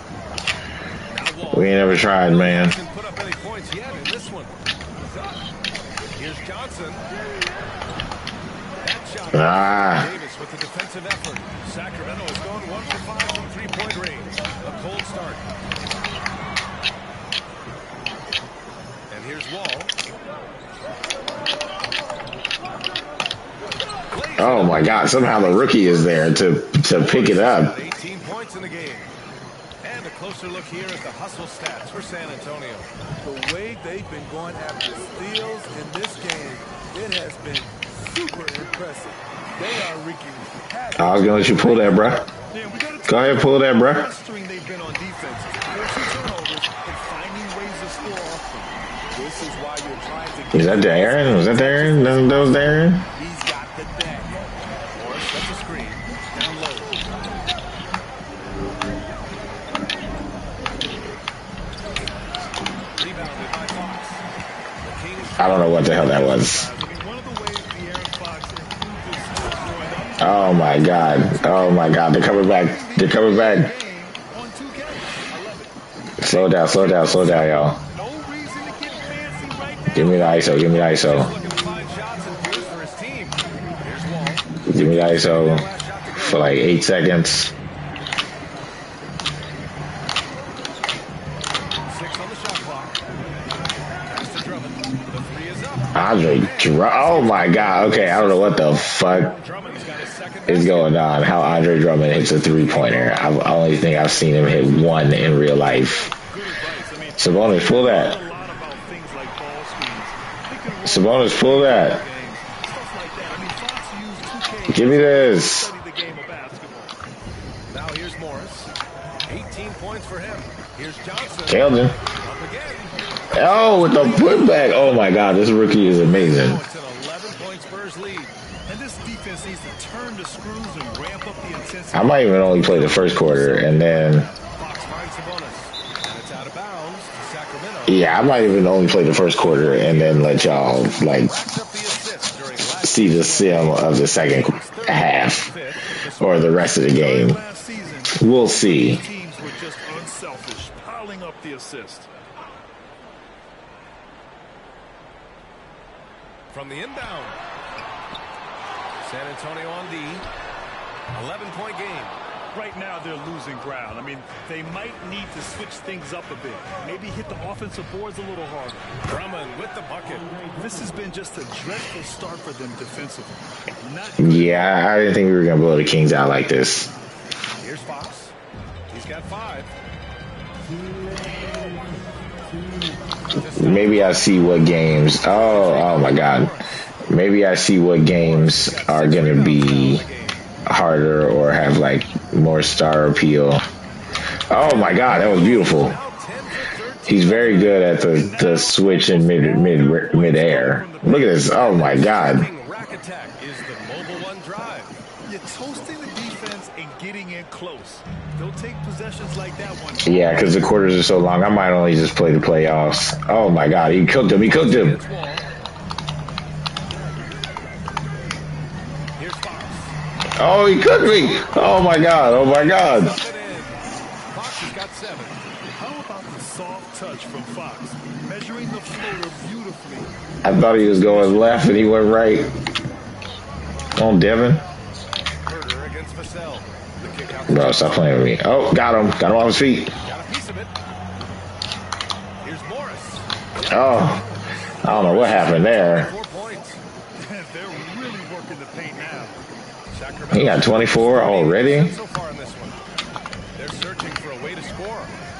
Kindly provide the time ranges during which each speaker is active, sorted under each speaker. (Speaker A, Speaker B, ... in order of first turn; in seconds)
Speaker A: 1.1-4.6, 6.2-7.1, 8.8-15.5, 19.1-19.9, 24.1-29.1, 29.8-32.9, 54.9-56.7, 63.0-64.2, 64.8-66.9, 80.5-86.6, 91.9-93.0, 94.1-103.3, 117.7-118.7, 119.2-124.4, 126.0-128.3, 132.7-146.6, 156.5-157.4, 159.0-160.3, 161.1-162.2, 169.1-170.4, 177.6-178.3, 178.9-179.7, 183.3-184.3, 185.2-186.9, 188.1-190.5, 194.5-197.8, 201.5-205.0, 214.4-215.5, 219.2-220.0, 222.5-225.4, 235.4-238.2, 240.0-240.7, 242.4-244.3, 244.8-246.8, 249.9-252.8, 253.6-255.2
Speaker B: 1.5-2.8, 9.3-10.1, 24.4-27.8, 41.0-42.3, 43.1-44.1, 50.5-53.1, 65.4-66.7, 70.2-73.7, 76.2-77.8, 79.9-81.3, 84.7-87.5, 95.9-99.3, 100.5-106.1, 107.2-108.2, 110.8-112.0, 114.7-115.7, 121.5-122.0, 123.3-126.6, 131.9-134.3, 137.9-141.4, 142.8-145.5, 146.2-147.4, 148.2-149.1, 174.2-176.9, 183.6-190.1, 190.7-193.6, 194.5-196.0, 197.1-202.5, 210.0-215.0, 220.4-223.2, 230.4-232.5, 234.0-234.7, 237.5-239.9, 243.7-244.3, 244.8-246.1, 250.3-252.0
Speaker C: 33.2-42.2, 49.1-54.4, 56.4-56.6
Speaker D: 42.5-48.7, 66.3-75.7, 76.4-80.5, 104.3-117.0, 124.3-124.6, 128.7-133.2, 133.9-134.3, 146.9-152.1, 162.5-168.9, 170.5-174.8, 197.3-201.5, 205.2-210.3, 225.7-230.1, 230.7-231.6, 247.2-249.4